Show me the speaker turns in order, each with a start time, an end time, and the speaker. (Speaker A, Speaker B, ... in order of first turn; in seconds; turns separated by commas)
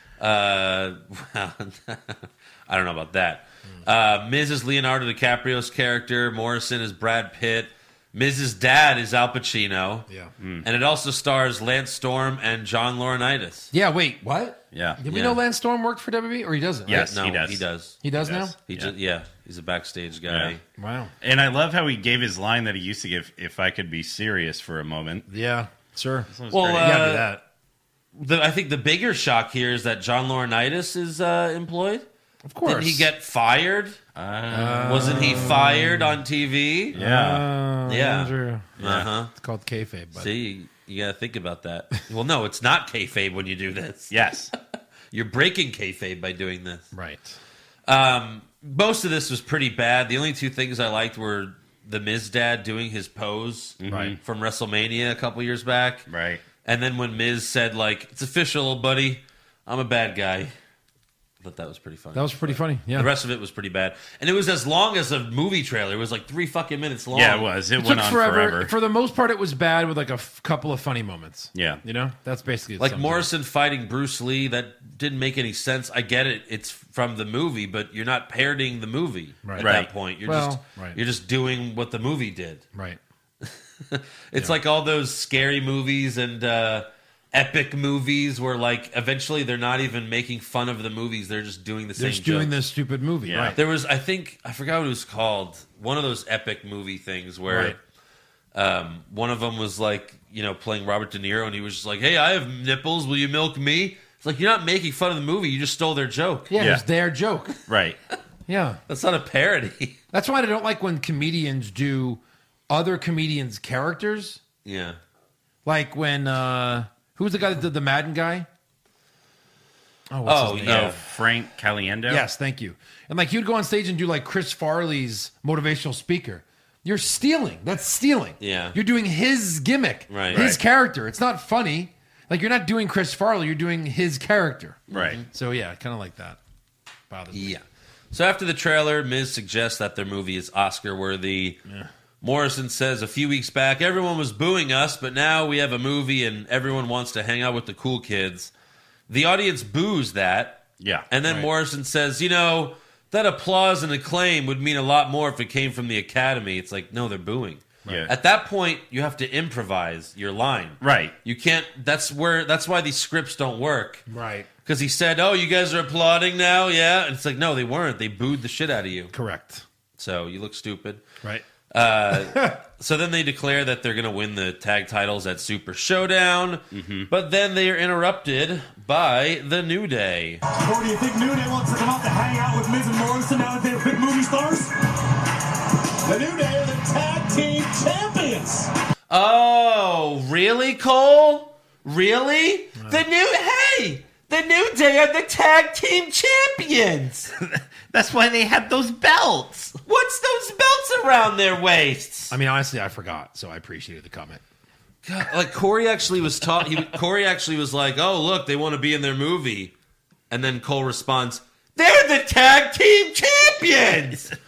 Speaker A: 0.2-10.1, Speaker B: 10.4-10.7, Speaker A: 10.6-13.7, Speaker C: 13.7-17.1, Speaker B: 14.7-15.0, Speaker A: 15.1-15.4, Speaker B: 16.9-17.6, Speaker A: 16.9-20.6, Speaker C: 18.0-18.5, Speaker B: 18.2-18.9, Speaker B: 20.3-20.5, Speaker C: 20.8-21.1, Speaker B: 21.2-25.3, Speaker C: 25.3-27.4, Speaker B: 26.3-27.1, Speaker A: 26.5-27.3, Speaker A: 28.1-32.0, Speaker C: 32.4-33.1, Speaker A: 32.6-34.0, Speaker B: 34.1-35.6, Speaker C: 34.5-36.2, Speaker A: 34.9-36.9, Speaker B: 36.9-37.5, Speaker C: 36.9-40.3, Speaker A: 37.9-39.3, Speaker B: 38.8-39.1, Speaker A: 40.2-44.5, Speaker B: 44.1-44.5, Speaker A: 45.1-46.9, Speaker C: 46.9-47.4, Speaker A: 47.9-56.1, Speaker B: 53.8-54.2, Speaker C: 53.9-54.1, Speaker B: 56.1-56.4, Speaker A: 56.6-60.5, Speaker A: 61.4-67.5, Speaker C: 62.1-63.1, Speaker B: 67.1-68.7, Speaker C: 67.8-73.3, Speaker B: 71.5-71.8, Speaker A: 72.8-82.6, Speaker C: 79.4-79.7, Speaker B: 79.6-79.9, Speaker C: 80.2-81.0, Speaker C: 82.7-83.0, Speaker A: 83.4-92.5, Speaker C: 92.0-93.6, Speaker B: 93.2-93.6, Speaker A: 93.5-97.8, Speaker C: 97.5-97.8, Speaker A: 98.5-106.5, Speaker C: 106.5-107.5, Speaker B: 106.6-106.8, Speaker B: 107.7-108.0, Speaker C: 108.5-108.8, Speaker A: 108.9-110.0, Speaker C: 110.1-114.4, Speaker A: 114.6-115.0, Speaker C: 115.6-118.5, Speaker C: 120.1-120.9, Speaker A: 120.2-121.0, Speaker B: 120.7-122.2, Speaker C: 122.1-134.8, Speaker A: 128.4-128.8, Speaker A: 130.1-130.5, Speaker B: 130.3-130.6, Speaker B: 134.9-135.2, Speaker A: 134.9-135.2, Speaker C: 135.3-136.4, Speaker C: 137.1-137.5, Speaker A: 137.3-141.6, Speaker A: 142.2-148.5, Speaker A: 149.1-164.1, Speaker B: 150.8-151.1, Speaker B: 157.8-158.1, Speaker B: 160.8-161.1, Speaker C: 164.1-164.5, Speaker A: 164.6-169.1, Speaker C: 169.1-169.6, Speaker A: 170.0-171.0, Speaker A: 171.7-180.4, Speaker C: 172.1-172.6, Speaker B: 176.7-177.1, Speaker D: 180.5-184.7, Speaker D: 186.0-188.7, Speaker A: 189.1-197.3, Speaker B: 197.4-199.8, Speaker A: 199.8-202.3, Speaker C: 202.3-204.4, Speaker A: 205.0-209.7, Speaker A: 210.3-214.3